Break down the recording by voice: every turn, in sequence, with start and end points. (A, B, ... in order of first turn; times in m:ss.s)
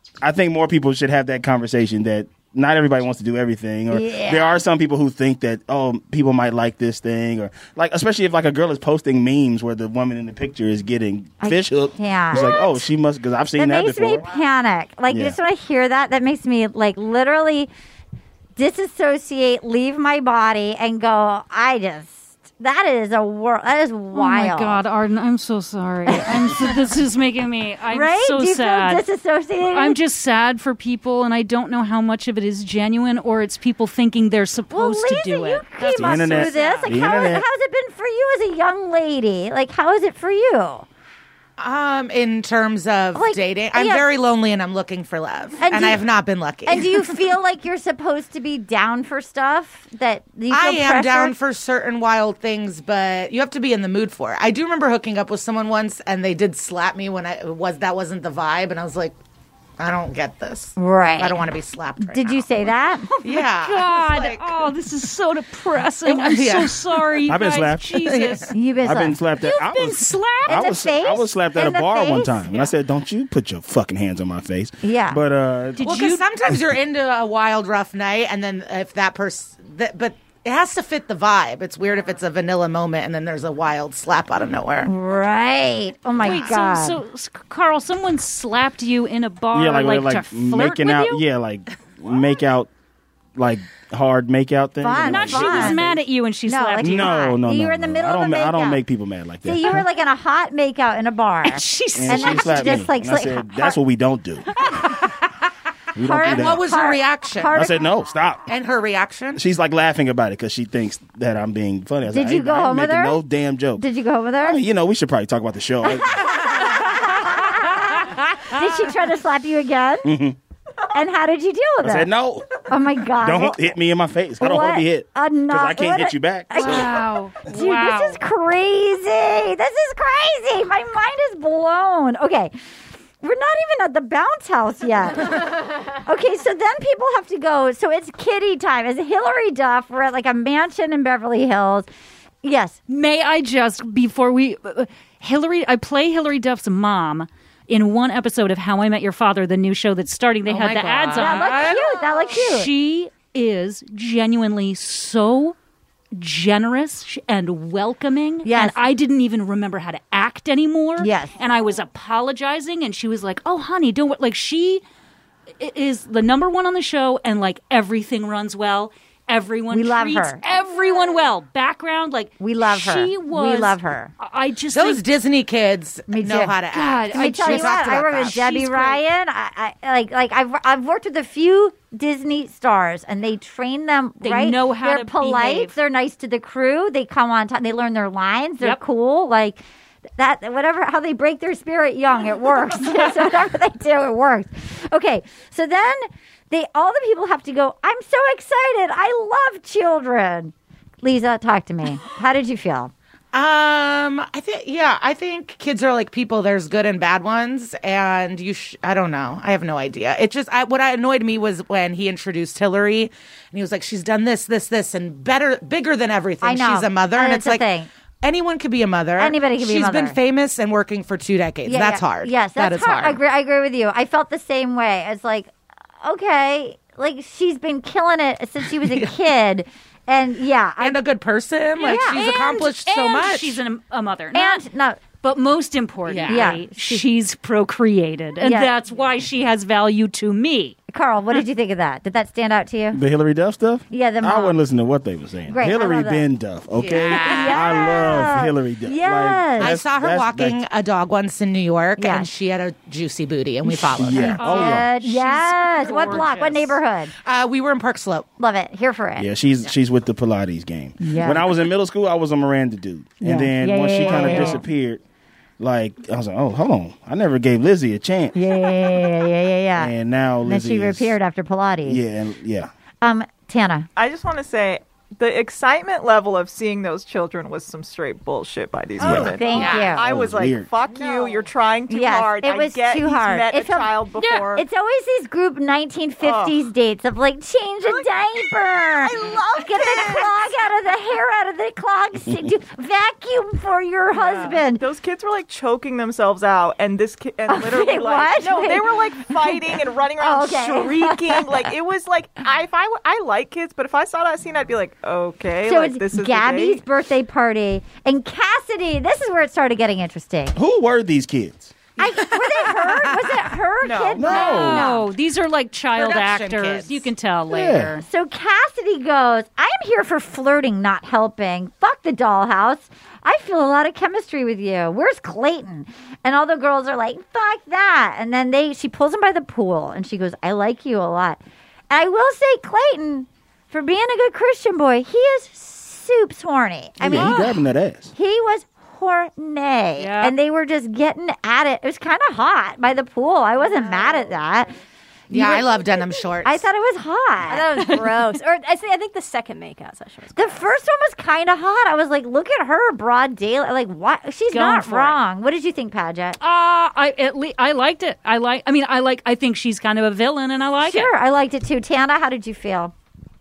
0:00.2-0:14.3 A
0:03.9-0:04.6 B
0:11.4-0:12.9 B
0:13.6-0:17.7 B
0:15.1-0:15.4 A
0:18.6-0:24.8 B
0:24.1-0:29.0 C
0:26.1-0:26.7 B
0:27.9-0:30.0 B
0:29.7-0:36.9 C
0:34.7-0:40.8 B
0:35.9-0:37.5 A
0:41.6-0:47.2 D
0:43.2-0:44.1 B
0:45.6-0:46.0 B
0:46.7-0:51.4 B
0:50.5-0:59.2 D
0:59.8-1:02.7 D
1:00.8-1:01.5 B
1:02.0-1:03.1 B
1:03.2-1:04.5 D
1:03.2-1:08.5 C
1:06.0-1:07.2 D
1:07.3-1:08.0 A
1:08.0-1:08.5 D
1:08.5-1:09.2 B
1:08.8-1:15.8 A
1:09.4-1:10.7 C
1:10.5-1:12.6 B
1:14.8-1:15.2 B
1:15.8-1:16.3 C
1:15.8-1:24.9 D
1:24.8-1:27.0 B
1:26.2-1:31.2 C
1:26.2-1:26.6 D
1:29.5-1:32.7 A
1:33.4-1:36.0 A
1:34.8-1:35.8 B
1:35.0-1:37.2 C
1:36.5-1:38.8 B
1:36.8-1:39.8 A
1:39.4-1:43.8 B
1:41.4-1:42.9 C
1:42.0-1:44.6 A
1:46.0-1:46.7 A
1:46.0-1:48.0 B
1:46.2-1:47.6 D
1:47.5-1:48.5 A
1:48.5-1:49.4 D
1:49.4-1:53.8 A
1:52.1-1:53.2 B
1:53.8-1:54.6 B
1:54.4-1:56.3 A
1:55.8-2:00.1 B
2:00.0-2:00.4 A
2:00.9-2:02.1 B
2:01.8-2:02.5 A
2:02.7-2:03.7 B
2:03.2-2:06.9 A
2:04.4-2:12.5 B
2:06.5-2:08.2 C
2:13.2-2:21.9 B
2:22.4-2:22.8 B
2:22.9-2:35.6 C
2:30.5-2:31.8 D
2:31.2-2:32.7 B
2:36.1-2:44.8 C
2:38.4-2:38.8 B
2:41.0-2:41.3 B
2:45.6-2:55.0 C
2:49.7-2:50.4 B
2:52.4-2:54.1 B
2:54.7-2:58.5 D
2:56.1-2:56.6 B
2:56.7-2:59.0 C
2:57.1-3:09.6 B
3:04.2-3:05.7 C
3:10.2-3:22.9 B
3:23.3-3:37.7 D
3:36.4-3:37.9 B
3:38.2-3:43.2 D
3:39.2-3:40.2 B
3:41.7-3:51.0 B
3:48.8-3:49.1 D
3:50.8-3:53.6 D
3:51.8-3:52.3 B
3:51.8-3:54.6 C
3:54.3-3:55.0 B
3:55.2-4:00.8 C
3:56.1-3:56.6 D
3:56.3-3:57.0 B
3:58.4-3:58.7 B
4:00.9-4:03.0 B
4:02.9-4:10.6 A
4:03.9-4:04.6 B
4:05.5-4:06.2 B
4:06.8-4:08.1 D
4:07.1-4:09.8 B
4:09.6-4:14.6 D
4:12.0-4:12.3 B
4:13.9-4:14.9 A
4:14.4-4:16.4 C
4:14.4-4:17.1 B
4:16.1-4:16.7 D
4:17.2-4:18.3 D
4:18.4-4:19.3 B
4:19.2-4:25.0 A
4:21.0-4:21.5 B
4:23.2-4:24.6 B
4:25.6-4:28.4 A
4:28.3-4:29.9 B
4:29.8-4:31.2 A
4:30.4-4:32.0 B
4:31.8-4:32.7 A
4:33.0-4:33.9 B
4:34.0-4:44.7 E
4:39.0-4:40.7 A
4:39.0-4:40.0 B
4:39.5-4:40.0 D
4:41.0-4:41.4 F
4:41.9-4:54.8 B
4:46.2-4:46.6 E
4:47.9-4:50.6 E
4:54.1-5:06.8 E
4:57.5-5:01.7 B
5:05.6-5:10.6 B
5:10.6-5:11.7 A
5:12.0-5:15.1 B
5:13.8-5:14.6 E
5:14.1-5:14.9 A
5:14.2-5:18.0 C
5:15.9-5:17.1 D
5:17.5-5:17.9 A
5:18.0-5:31.4 B
5:31.9-5:37.6 B
5:37.0-5:38.1 A
5:37.0-5:37.6 C
5:38.2-5:44.7 B
5:40.0-5:40.4 C
5:43.7-5:44.3 F
5:45.3-5:45.8 B
5:45.3-5:46.6 D
5:46.4-5:48.0 B
5:47.5-5:50.7 F
5:50.4-5:56.4 B
5:54.5-5:55.2 C
5:56.4-6:01.1 C
6:00.8-6:02.9 B